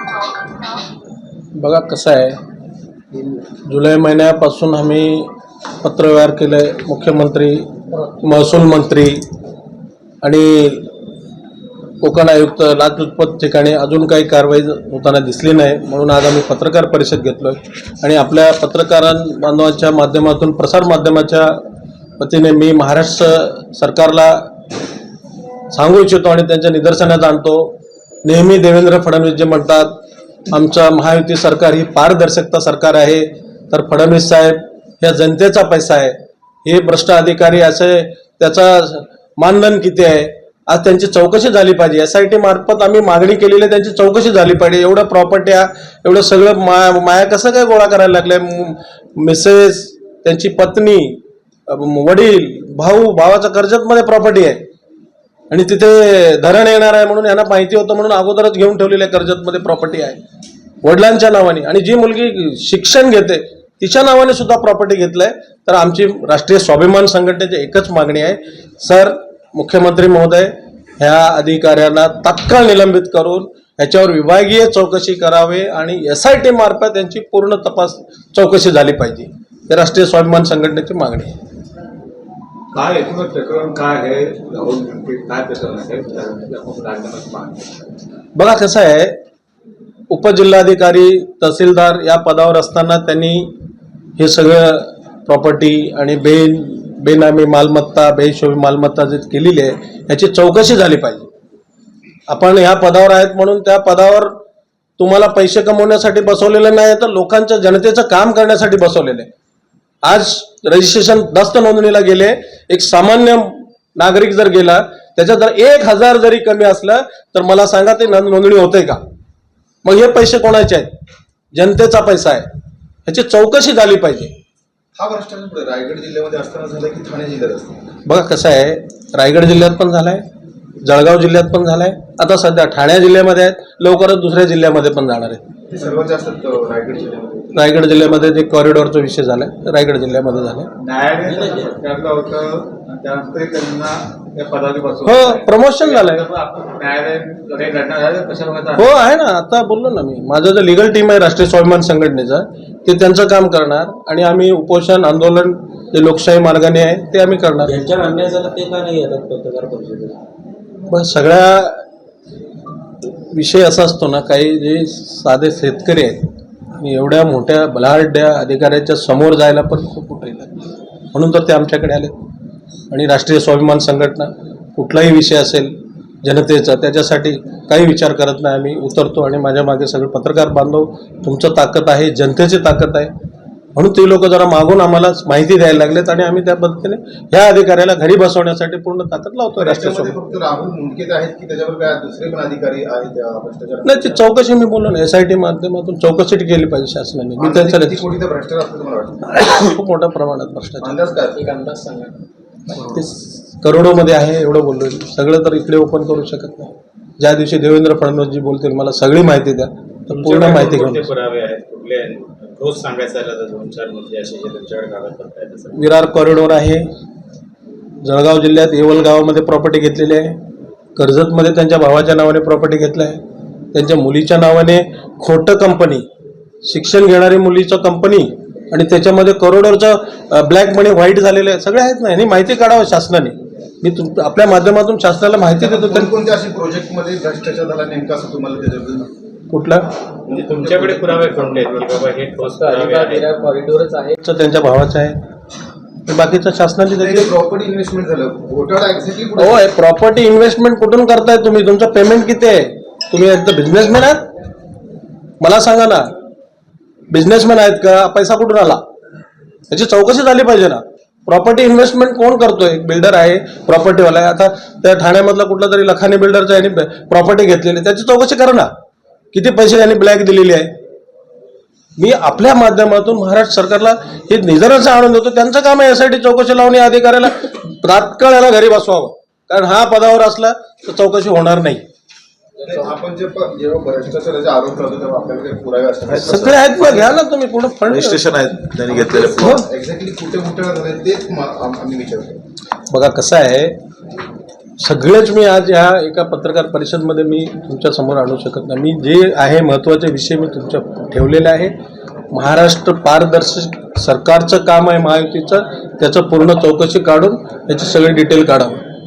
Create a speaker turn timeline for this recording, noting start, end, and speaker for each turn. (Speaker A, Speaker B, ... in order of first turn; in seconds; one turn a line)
Speaker A: 1.6-2.4
Speaker A: 3.7-5.3
Speaker A: 5.8-9.2
Speaker A: 10.2-10.9
Speaker A: 12.0-21.6
Speaker A: 22.2-24.5
Speaker A: 25.7-30.0
Speaker A: 30.5-54.6
Speaker A: 55.5-60.2
Speaker A: 60.8-81.3
Speaker B: 82.7-87.7
Speaker A: 88.3-89.2
Speaker A: 90.1-93.5
Speaker A: 94.2-101.3
Speaker A: 102.3-104.3
Speaker A: 105.0-109.3
Speaker A: 110.0-119.0
Speaker A: 119.8-120.9
Speaker A: 121.5-122.5
Speaker A: 123.1-124.3
Speaker C: 125.0-127.8
Speaker A: 128.1-130.2
Speaker A: 130.8-135.4
Speaker C: 135.7-137.6
Speaker A: 137.6-140.7
Speaker B: 140.8-148.9
Speaker D: 141.2-141.8
Speaker A: 145.0-146.3
Speaker A: 148.8-157.8
Speaker D: 157.7-160.2
Speaker A: 160.9-161.8
Speaker A: 163.3-166.2
Speaker A: 166.8-172.1
Speaker A: 172.9-183.1
Speaker A: 183.8-190.2
Speaker C: 189.6-194.2
Speaker A: 193.8-198.0
Speaker C: 197.4-199.3
Speaker A: 199.3-200.9
Speaker C: 200.8-201.4
Speaker D: 201.3-202.2
Speaker A: 202.7-211.1
Speaker E: 210.1-215.8
Speaker A: 215.8-216.9
Speaker A: 218.0-220.4
Speaker A: 221.0-223.2
Speaker A: 223.7-226.1
Speaker A: 226.6-236.1
Speaker C: 235.6-239.1
Speaker A: 239.5-239.9
Speaker C: 240.3-242.0
Speaker E: 240.3-243.3
Speaker D: 242.4-244.2
Speaker A: 244.2-245.2
Speaker A: 246.1-247.3
Speaker C: 247.0-249.6
Speaker A: 249.4-254.3
Speaker A: 255.4-256.1
Speaker A: 257.1-258.8
Speaker A: 259.7-268.7
Speaker A: 269.3-270.7
Speaker A: 272.0-281.8
Speaker D: 282.6-282.9
Speaker C: 282.6-286.9
Speaker F: 286.1-286.6
Speaker A: 286.2-288.3
Speaker F: 287.9-289.6
Speaker C: 288.8-292.4
Speaker A: 292.9-293.8
Speaker A: 294.8-301.8
Speaker A: 302.3-308.8